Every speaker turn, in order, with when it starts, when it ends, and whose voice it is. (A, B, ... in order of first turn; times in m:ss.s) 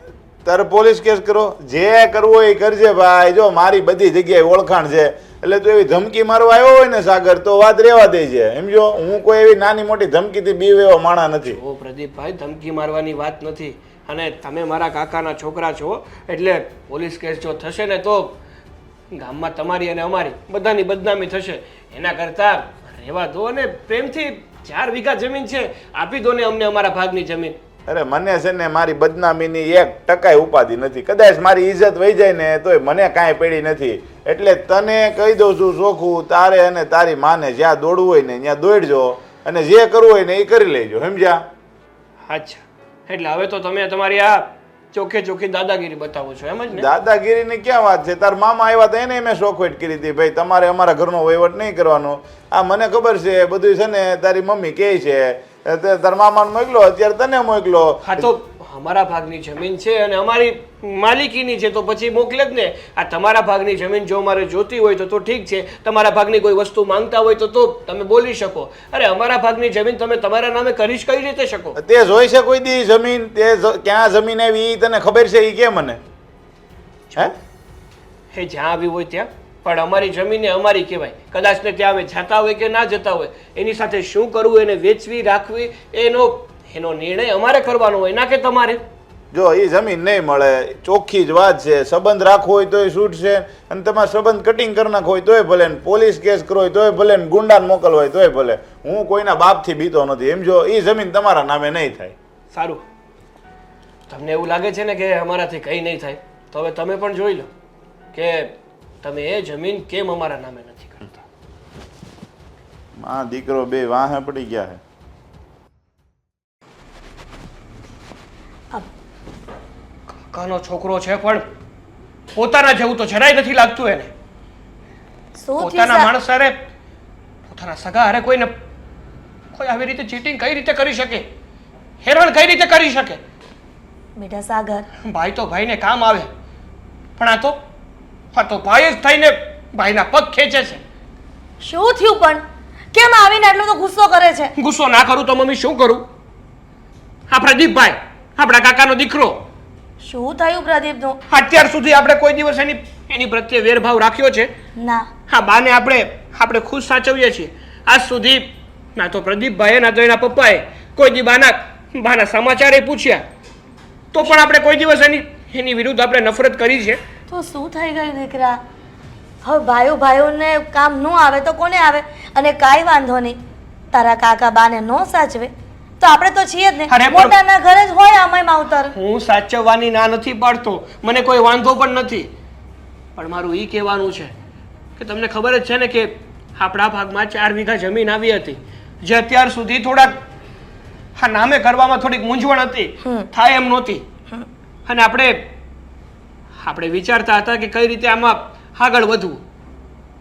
0:00.4-0:11.6 A
0:11.4-0:18.3 B
0:19.1-0:27.6 B
0:27.9-0:41.4 A
0:42.3-0:46.9 B
0:46.7-0:58.3 A
0:58.0-1:11.8 B
1:11.8-1:16.0 A
1:18.3-1:28.8 B
1:29.3-1:42.1 A
1:42.5-1:42.8 B
1:44.1-1:47.5 B
1:48.1-1:48.5 B
1:49.0-1:51.2 B
1:53.0-1:54.8 A
2:00.3-2:01.4 B
2:02.3-2:04.1 B
2:05.3-2:06.1 C
2:05.6-2:06.5 B
2:07.5-2:08.5 B
2:09.5-2:11.3 B
2:12.0-2:13.2 B
2:14.2-2:14.8 C
2:15.1-2:16.3 B
2:17.2-2:17.6 B
2:18.3-2:20.8 B
2:21.6-2:22.4 C
2:22.9-2:24.5 C
2:24.6-2:26.0 B
2:27.3-2:29.4 B
2:30.0-2:31.2 C
2:31.3-2:34.5 B
2:34.8-2:35.0 C
2:35.3-2:43.2 B
2:44.1-2:47.0 B
2:47.3-2:48.6 C
2:49.4-2:53.4 C
2:53.9-2:58.9 C
2:56.9-2:57.3 B
2:58.9-3:02.3 B
3:03.2-3:04.3 B
3:05.0-3:10.2 B
3:11.2-3:14.0 B
3:14.8-3:15.3 B
3:16.6-3:19.4 B